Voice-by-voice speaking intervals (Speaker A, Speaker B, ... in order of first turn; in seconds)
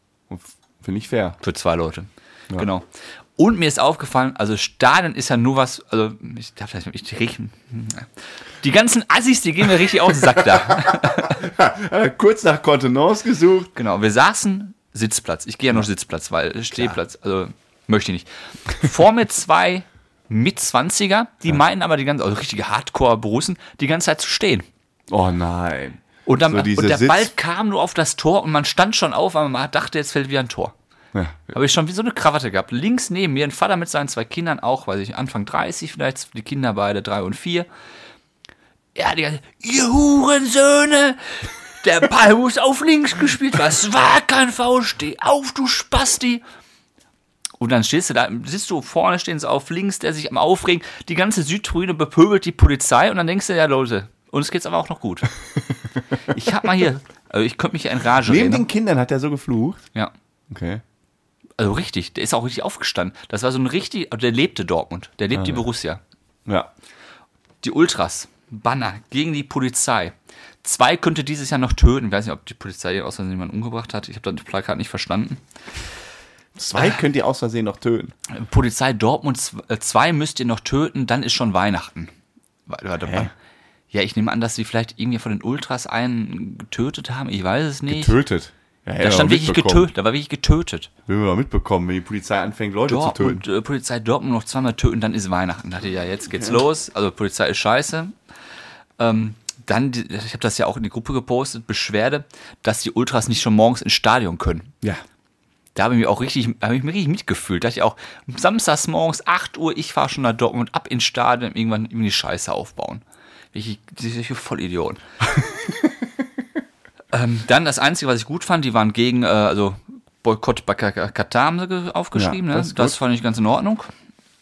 Speaker A: 0.3-1.4, 10.5-13.7, 16.7-17.0, 25.1-27.3, 31.1-31.6, 58.2-59.9, 60.5-60.8, 65.3-65.7, 76.6-78.1, 83.0-83.3, 87.9-89.9, 91.1-93.4, 115.4-115.9, 122.2-123.0
Speaker B: 1.4-2.9, 3.4-11.4, 13.8-24.7, 26.3-30.7, 31.5-37.7, 39.0-46.4, 47.6-55.3, 56.2-58.7, 61.6-66.0, 67.6-75.4, 78.3-82.1, 82.7-83.3, 83.9-88.2, 89.0-90.9, 92.9-98.2, 99.0-104.7, 105.8-115.0, 117.1-123.9